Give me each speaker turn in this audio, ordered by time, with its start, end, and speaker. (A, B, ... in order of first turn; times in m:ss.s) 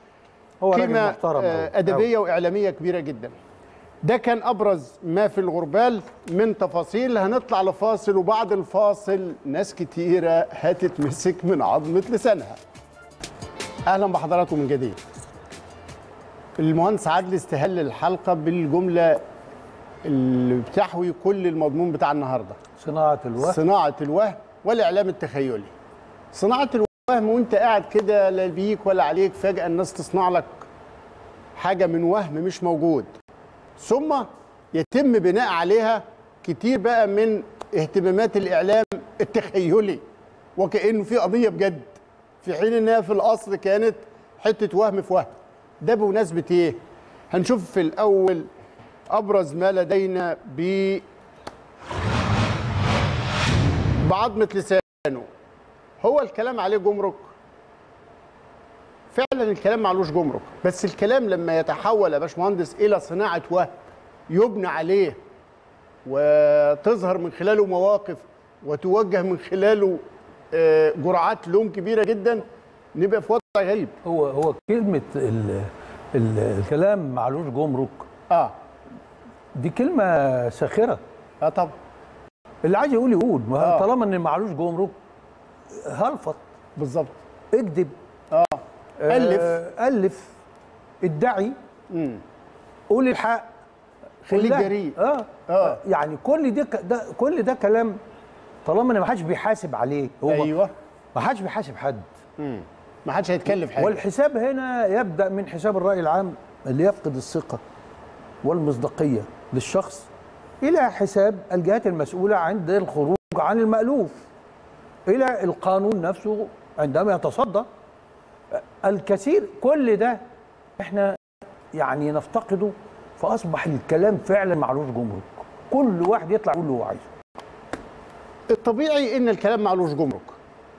0:00.6-0:02.1 A
0:00.7-0:03.3 B
0:04.0-0:12.6 B
0:13.9-0:15.0 B
0:16.6-0:19.2 B
0:20.0-0:22.6 B
0:22.8-0:23.6 A
0:23.4-0:25.7 B
0:26.3-0:30.6 B
0:31.6-0:33.1 B
0:33.8-0:40.0 B
0:40.6-0:46.8 B
0:47.3-0:48.5 B
0:49.1-0:51.0 B
0:54.0-0:55.3 B
0:56.0-0:57.3 B
0:59.1-1:03.8 B
1:04.3-1:05.2 B
1:06.1-1:14.0 B
1:14.0-1:18.1 A
1:18.3-1:18.6 B
1:19.6-1:21.0 A
1:21.4-1:21.8 B
1:22.6-1:25.0 A
1:23.6-1:23.9 B
1:25.7-1:26.4 A
1:26.8-1:27.2 B
1:27.5-1:27.9 A
1:28.3-1:29.6 B
1:29.0-1:30.3 A
1:31.0-1:31.6 A
1:31.9-1:32.2 B
1:32.9-1:33.5 A
1:34.2-1:38.0 A
1:34.3-1:35.0 B
1:35.5-1:35.8 B
1:38.7-1:40.5 A
1:40.3-1:40.7 B
1:41.2-1:42.1 A
1:42.4-1:44.0 B
1:43.8-1:47.6 A
1:48.4-1:50.1 A
1:50.6-1:54.2 A
1:55.1-1:57.7 A
1:58.5-2:00.2 A
2:00.8-2:01.2 A
2:01.8-2:07.1 A
2:08.5-2:10.4 B